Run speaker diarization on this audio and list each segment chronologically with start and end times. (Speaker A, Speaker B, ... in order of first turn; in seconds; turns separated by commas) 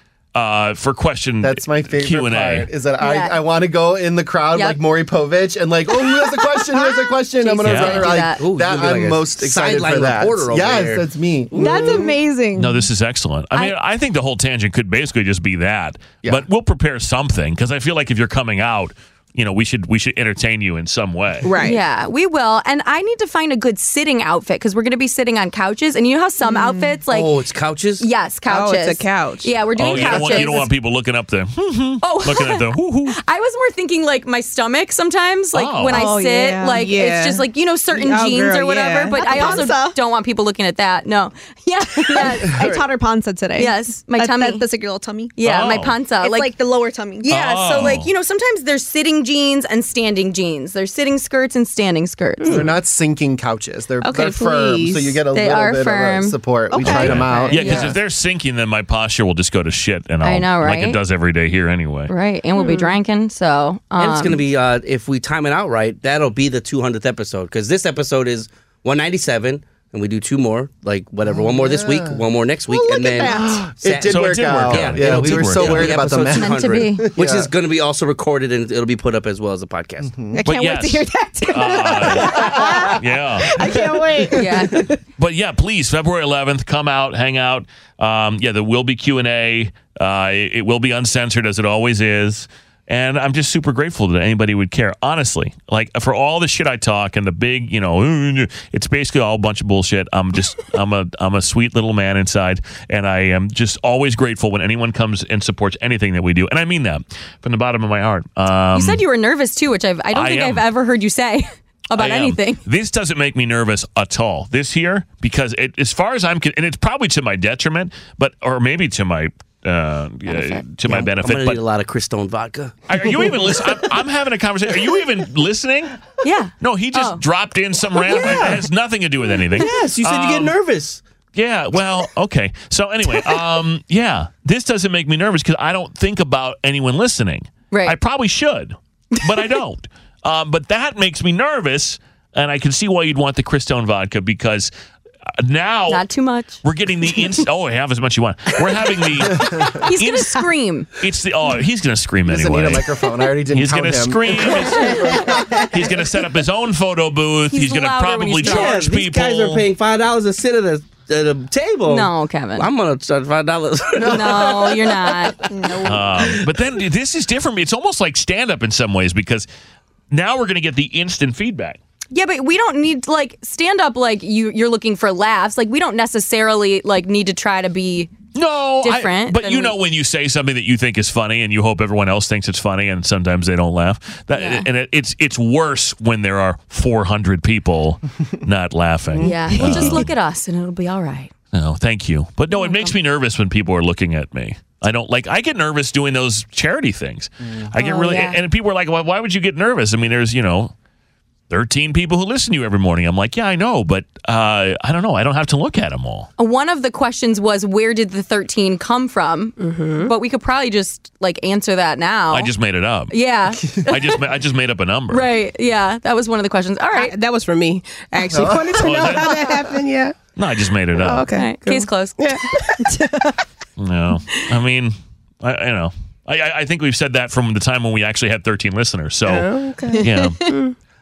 Speaker A: 0.3-2.7, Speaker B: 1.4-12.1, Speaker C: 3.0-3.4, Speaker C: 4.5-4.8, Speaker C: 7.4-8.4, Speaker A: 7.6-8.1, Speaker D: 7.7-11.8, Speaker E: 11.6-12.7, Speaker A: 12.5-21.5, Speaker F: 21.4-21.8, Speaker C: 21.6-27.4, Speaker F: 26.4-27.0, Speaker D: 27.1-28.1, Speaker C: 28.0-30.7, Speaker F: 28.5-30.5, Speaker A: 29.7-33.2, Speaker C: 32.0-42.8, Speaker A: 35.5-36.0, Speaker E: 35.9-36.8, Speaker F: 36.8-39.2, Speaker E: 39.1-40.0, Speaker E: 42.1-45.3, Speaker B: 42.5-42.8, Speaker C: 43.5-44.7, Speaker C: 45.4-46.6, Speaker A: 45.4-46.0, Speaker E: 46.2-47.3, Speaker C: 47.2-52.7, Speaker A: 47.2-48.1, Speaker B: 52.4-58.0, Speaker F: 54.0-55.2, Speaker C: 55.3-56.4, Speaker E: 56.7-57.7, Speaker A: 56.9-62.1, Speaker C: 60.2-61.0, Speaker C: 62.1-64.4, Speaker F: 62.6-62.9, Speaker D: 64.0-80.1, Speaker B: 71.2-77.5, Speaker E: 73.2-73.5, Speaker A: 74.0-76.0, Speaker C: 76.3-77.1, Speaker B: 80.0-80.4, Speaker F: 80.3-82.8, Speaker A: 80.4-83.8, Speaker E: 80.5-80.8, Speaker E: 82.1-82.8, Speaker D: 82.2-82.5, Speaker F: 83.4-85.0, Speaker E: 83.8-84.2, Speaker C: 84.3-84.8, Speaker A: 85.2-109.0, Speaker C: 108.7-112.6, Speaker A: 110.1-110.7, Speaker A: 111.9-121.6, Speaker C: 120.2-120.6, Speaker D: 120.8-123.5, Speaker A: 122.9-126.0, Speaker C: 126.2-127.2, Speaker A: 126.6-130.5, Speaker C: 128.1-128.4, Speaker D: 128.2-128.6, Speaker D: 129.5-131.0, Speaker A: 131.3-144.7, Speaker C: 137.7-137.9, Speaker A: 145.4-146.1, Speaker C: 145.9-146.6, Speaker A: 146.6-152.9, Speaker C: 149.8-150.9, Speaker B: 152.3-155.9, Speaker A: 153.5-159.7, Speaker C: 154.8-155.2, Speaker C: 157.5-158.9, Speaker D: 158.4-165.9, Speaker C: 161.9-162.7, Speaker B: 163.9-164.7, Speaker C: 164.0-165.7, Speaker A: 165.8-169.5, Speaker A: 170.1-171.8, Speaker C: 172.1-178.1, Speaker A: 178.3-190.1, Speaker C: 178.8-179.8, Speaker C: 184.3-184.7, Speaker B: 189.1-190.1, Speaker C: 189.2-191.3, Speaker A: 191.5-200.7, Speaker C: 192.5-192.9, Speaker C: 197.8-198.4, Speaker A: 201.5-206.3, Speaker C: 206.4-212.5, Speaker F: 209.6-210.1, Speaker A: 212.3-213.2, Speaker C: 213.1-214.2, Speaker A: 213.8-215.3, Speaker C: 215.1-217.1, Speaker F: 216.9-223.4, Speaker B: 218.3-219.5, Speaker A: 218.8-219.4, Speaker A: 220.3-221.3, Speaker C: 221.3-222.4, Speaker A: 223.8-230.4, Speaker F: 229.2-230.7